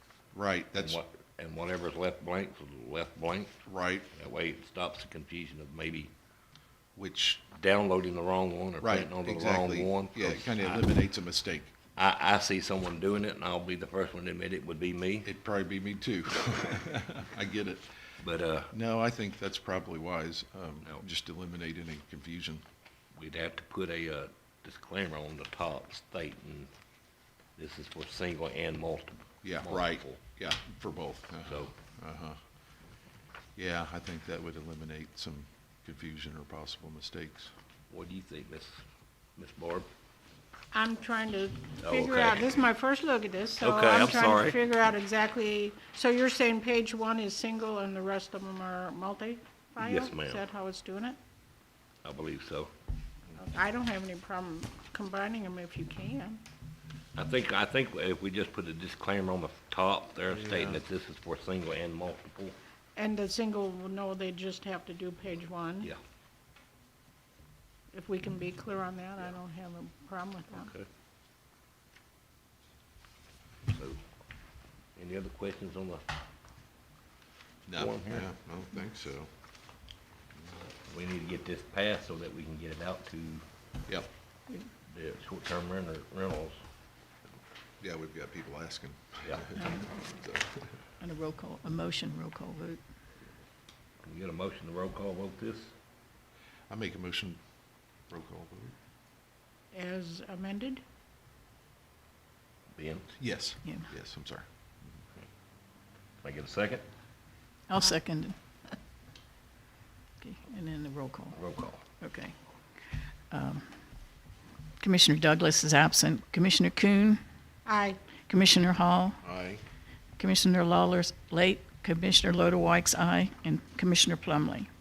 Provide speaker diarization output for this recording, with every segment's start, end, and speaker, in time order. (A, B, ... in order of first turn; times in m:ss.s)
0:00.3-0:01.0 A
0:00.8-0:03.5 B
0:03.6-0:04.1 A
0:04.1-0:06.1 B
0:07.0-0:07.5 A
0:07.5-0:10.9 B
0:08.8-0:11.7 A
0:12.0-0:15.3 B
0:15.2-0:17.9 A
0:18.2-0:18.7 B
0:18.7-0:22.6 A
0:23.2-0:26.7 B
0:27.6-0:30.2 B
0:29.4-0:32.4 A
0:31.5-0:31.7 B
0:33.6-0:37.5 A
0:37.9-0:38.8 B
0:39.4-0:39.9 B
0:40.7-0:51.2 C
0:41.8-0:42.6 B
0:43.6-0:44.6 B
0:49.8-0:50.4 B
0:52.0-0:52.7 B
0:53.4-0:56.4 C
0:57.2-1:02.6 B
1:00.3-1:00.8 A
1:03.0-1:05.9 C
1:07.9-1:10.7 C
1:10.5-1:10.9 B
1:13.7-1:14.0 B
1:15.0-1:16.0 B
1:17.7-1:19.3 A
1:17.7-1:18.3 B
1:20.8-1:23.4 B
1:24.9-1:26.6 B
1:27.8-1:30.6 A
1:29.6-1:29.9 D
1:31.0-1:32.8 D
1:34.0-1:35.7 B
1:36.7-1:37.4 A
1:38.1-1:38.8 A
1:39.7-1:40.8 C
1:42.8-1:43.1 B
1:43.2-1:44.4 A
1:46.2-1:46.9 B
1:47.7-1:48.4 D
1:50.2-1:51.4 D
1:51.3-1:51.8 B
1:52.0-1:52.3 D
1:53.3-1:53.6 D
1:54.8-1:57.2 D
1:57.7-1:58.0 C
1:58.2-1:59.2 D
1:59.2-1:59.6 A
2:00.2-2:04.7 D